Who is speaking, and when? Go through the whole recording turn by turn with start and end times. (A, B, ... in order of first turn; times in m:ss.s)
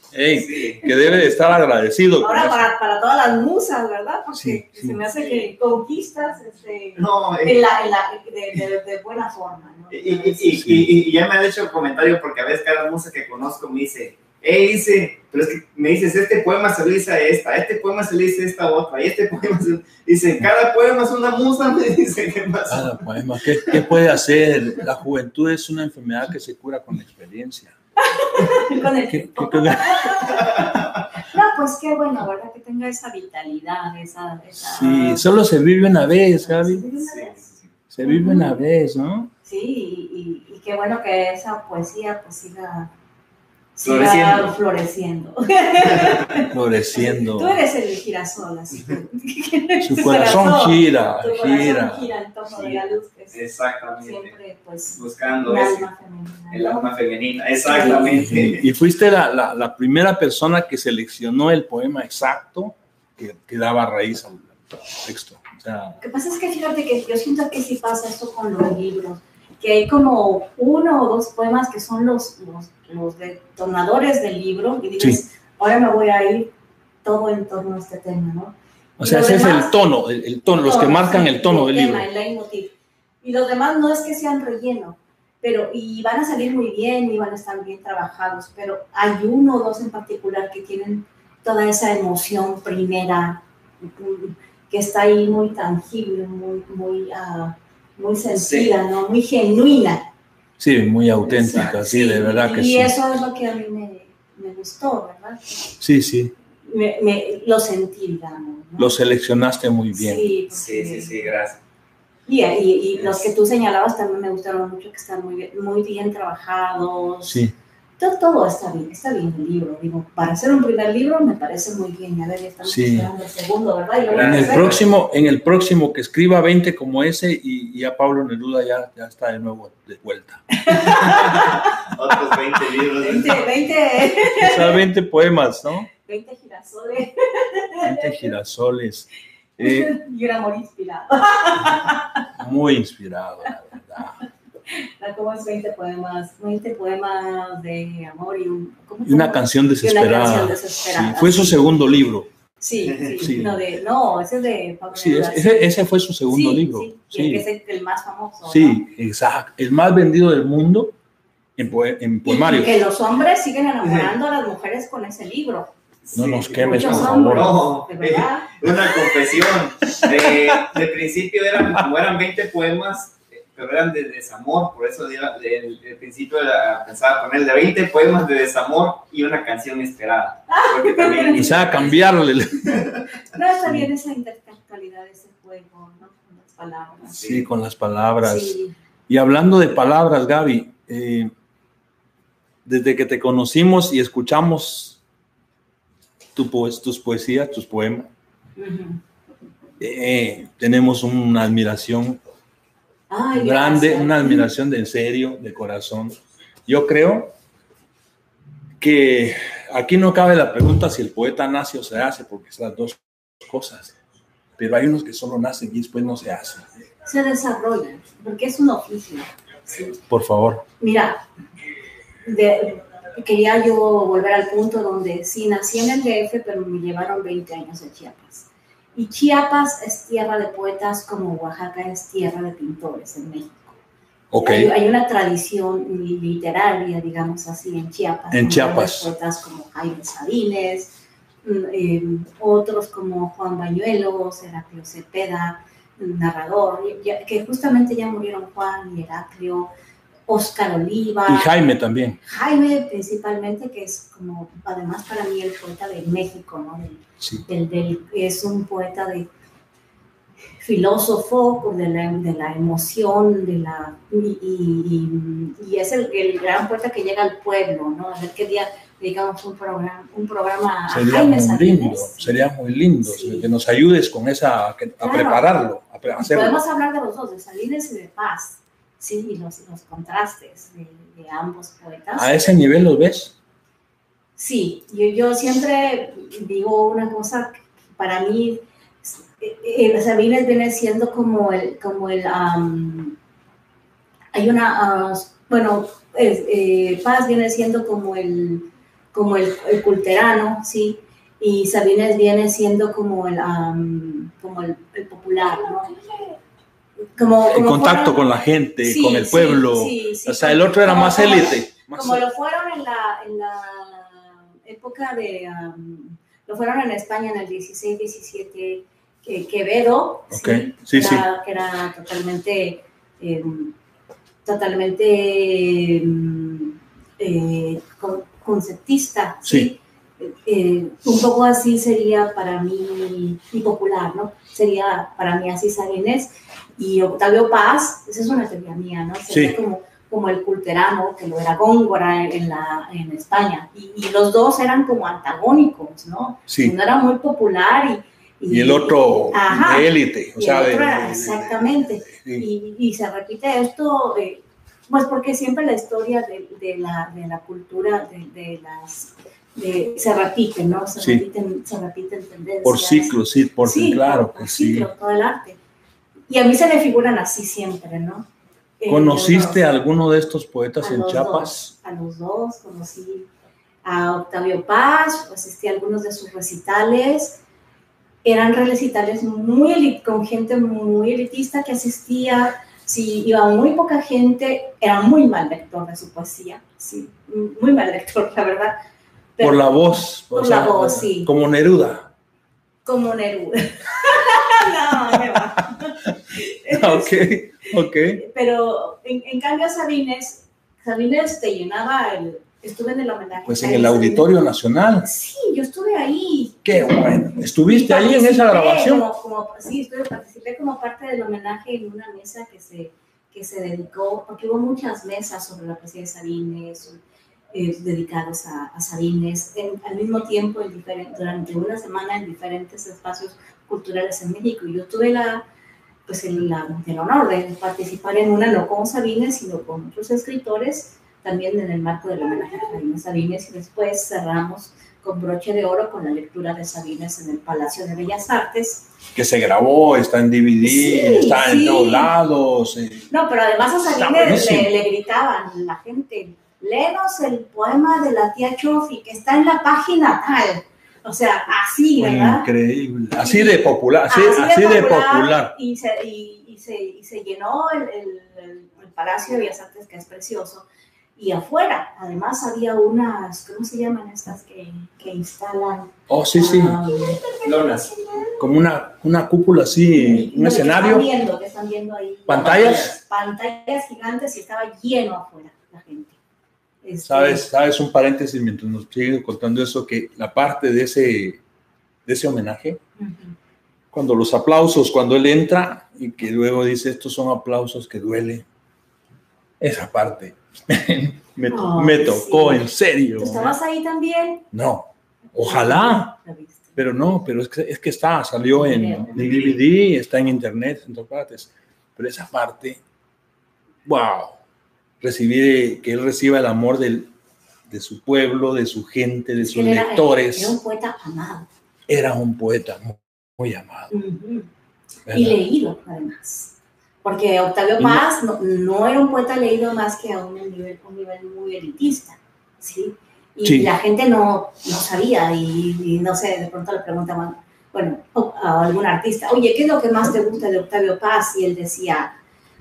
0:00.1-0:02.7 A
0:00.3-0:00.9 B
0:02.2-0:10.6 C
0:04.3-0:05.0 A
0:05.2-0:05.5 B
0:07.0-0:07.7 B
0:09.9-0:23.8 B
0:10.5-0:10.9 A
0:22.7-0:27.7 A
0:28.0-0:35.2 C
0:28.5-0:30.5 A
0:34.6-0:36.8 A
0:36.4-0:37.4 C
0:37.0-0:37.6 B
0:37.9-0:39.3 A
0:38.0-0:38.6 C
0:39.4-0:42.9 C
0:43.8-0:53.4 C
0:43.8-0:44.5 B
0:46.4-0:47.6 A
0:49.8-0:52.1 A
0:53.3-0:54.3 B
0:54.0-0:56.9 C
0:54.9-0:55.9 B
0:56.5-0:58.6 B
0:57.6-0:58.2 C
0:57.8-1:06.0 A
1:06.0-1:16.5 C
1:17.0-1:19.8 C
1:19.0-1:22.1 A
1:20.4-1:40.1 C
1:38.3-1:38.8 B
1:40.6-1:42.9 A
1:41.2-1:45.7 C
1:45.8-1:46.3 A
1:46.6-1:49.0 C
1:48.8-1:50.3 A
1:49.9-1:51.3 C
1:50.5-1:51.6 B
1:52.3-1:57.4 C
1:53.0-1:53.2 B
1:57.3-1:57.5 A
1:58.0-2:04.8 C
2:02.6-2:03.1 A
2:04.0-2:04.8 B
2:04.2-2:10.9 A
2:10.5-2:11.7 C
2:10.9-2:13.5 B
2:13.0-2:14.8 C
2:14.2-2:15.9 A
2:16.0-2:18.3 C
2:17.8-2:19.9 A
2:19.6-2:22.2 C
2:22.4-2:24.2 A
2:24.7-2:31.6 C
2:29.0-2:32.3 A
2:32.6-2:35.7 C
2:32.9-2:33.2 B
2:33.2-2:33.6 A
2:34.9-2:37.4 A
2:36.3-2:38.9 C
2:38.4-2:40.9 A
2:41.6-2:42.7 A
2:42.2-2:45.7 C
2:46.1-3:02.1 B
2:46.1-2:47.6 A
2:46.5-2:48.5 C
3:00.5-3:01.6 C
3:01.3-3:02.9 A
3:03.3-3:07.2 C
3:03.6-3:03.9 A
3:07.1-3:07.5 B
3:07.2-3:08.6 A
3:08.2-3:08.7 C
3:09.1-3:11.3 A
3:12.6-3:15.0 A
3:16.3-3:18.1 A
3:18.6-3:19.0 C
3:19.8-3:22.2 A
3:23.1-3:24.5 C
3:23.3-3:27.3 A
3:28.8-3:33.9 A
3:34.6-3:36.7 A
3:37.0-3:40.0 C
3:40.1-3:40.6 A
3:40.8-3:41.2 C
3:42.2-3:53.8 C
3:54.3-3:54.7 A
3:54.4-4:09.7 C
3:58.3-3:59.1 A
4:10.3-4:11.5 C
4:11.3-4:12.2 A
4:12.2-4:19.3 C
4:17.2-4:17.4 A
4:20.6-4:32.5 C
4:30.9-4:36.6 A
4:33.0-4:33.5 C
4:35.0-4:35.5 C
4:36.1-4:42.3 C
4:42.2-4:43.3 A
4:44.4-4:53.2 C
4:54.3-5:06.3 C
5:07.2-5:08.2 C
5:07.5-5:12.2 A
5:08.8-5:23.7 C
5:20.3-5:21.2 A
5:24.4-6:05.6 C
5:29.4-5:29.7 A
5:39.3-5:39.6 A
5:46.5-5:46.7 A
5:48.5-5:52.5 A
6:01.0-6:01.2 A
6:02.6-6:04.9 A
6:06.3-6:08.3 C
6:08.8-6:09.6 C
6:08.9-6:11.7 A
6:10.8-6:13.3 C
6:13.8-6:17.4 C
6:18.2-6:28.8 C
6:29.4-6:31.3 C
6:29.4-6:32.1 A
6:32.8-6:44.3 C
6:35.1-6:35.4 A
6:36.7-6:38.2 A
6:43.5-6:45.1 A
6:45.0-6:47.0 C
6:46.6-6:49.1 A
6:47.6-6:57.0 C
6:57.5-7:05.4 C
7:06.0-7:18.9 C
7:19.1-7:23.1 A
7:20.6-7:22.1 C
7:23.1-7:32.5 C
7:23.9-7:24.7 A
7:32.0-7:35.5 A
7:33.1-7:40.6 C
7:41.2-7:48.3 C
7:46.1-7:46.8 A
7:47.4-7:47.9 B
7:48.4-7:51.1 A
7:49.9-7:56.2 C
7:52.3-7:52.9 A
7:52.4-7:53.0 B
7:56.8-7:57.4 C
7:57.0-8:01.4 A
8:02.0-8:02.8 A
8:03.0-8:03.4 C
8:03.9-8:08.4 A
8:09.6-8:13.6 A
8:11.5-8:12.7 C
8:13.2-8:14.5 C
8:14.5-8:16.1 A
8:15.3-8:16.8 C
8:16.8-8:22.8 A
8:18.5-8:19.4 C
8:19.1-8:19.6 B
8:23.8-8:24.4 A
8:25.0-8:27.1 A
8:27.7-8:30.6 A
8:29.4-8:31.5 C
8:31.9-8:33.9 A
8:33.9-8:34.5 C
8:35.1-8:35.4 A
8:35.1-8:52.1 C
8:37.8-8:38.0 A
8:43.4-8:43.7 A